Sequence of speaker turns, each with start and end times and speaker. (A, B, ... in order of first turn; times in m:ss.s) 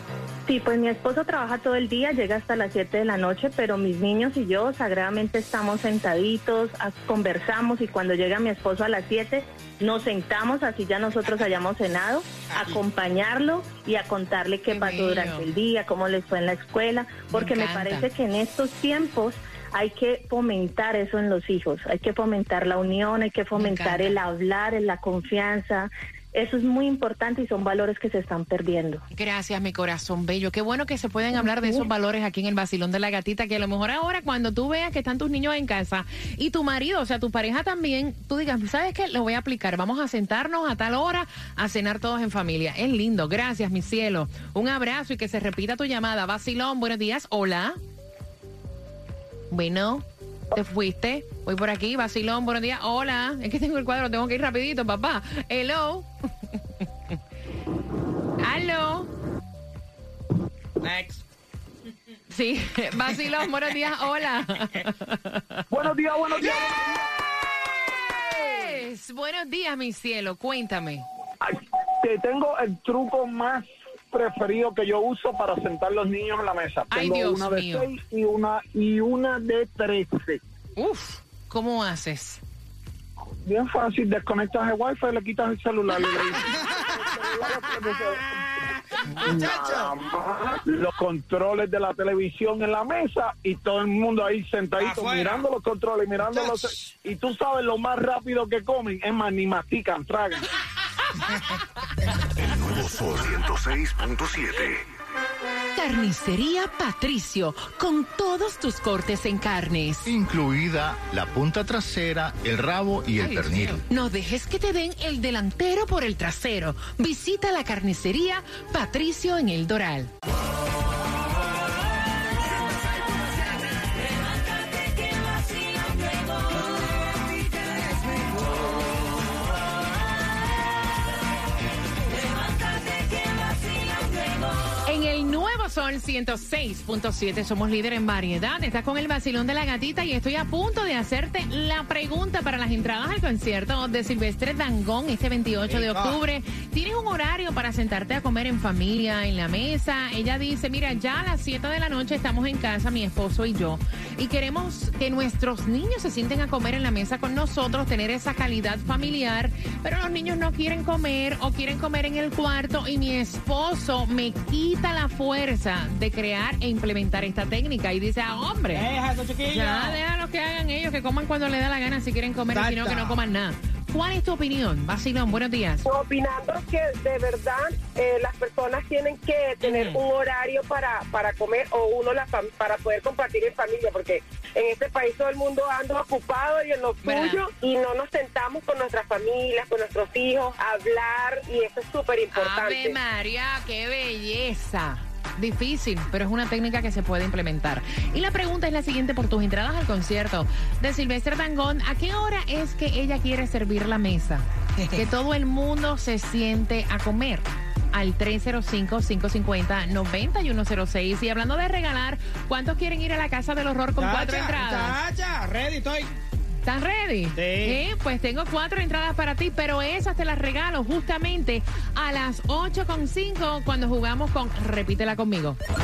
0:00.5-0:29.0 A
0:12.5-0:12.8 B
0:14.7-0:15.5 C
0:17.3-0:18.1 C
0:23.6-0:24.2 C
0:29.1-0:47.8 C
0:49.5-0:56.1 C
0:58.4-0:59.1 C
1:00.8-1:01.2 B
1:02.3-1:05.6 C
1:05.7-1:07.0 D
1:08.3-1:11.1 C
1:11.4-1:20.4 D
1:16.9-1:17.9 C
1:20.8-1:22.4 C
1:23.5-1:40.5 D
1:26.1-1:30.0 B
1:34.8-1:35.5 B
1:36.3-1:36.9 B
1:42.4-1:44.8 E
1:45.8-1:50.1 C
1:50.1-1:53.8 F
1:53.2-2:00.1 C
2:14.8-2:48.9 C
2:25.7-2:26.2 B
2:48.7-2:50.0 B
2:49.5-2:55.8 C
2:52.5-2:53.2 B
2:55.9-3:13.0 G
2:59.6-3:00.0 C
3:07.0-3:07.4 C
3:12.3-3:35.0 C
3:24.8-3:25.0 B
3:34.0-3:36.1 B
3:36.6-3:45.6 C
3:37.4-3:37.8 B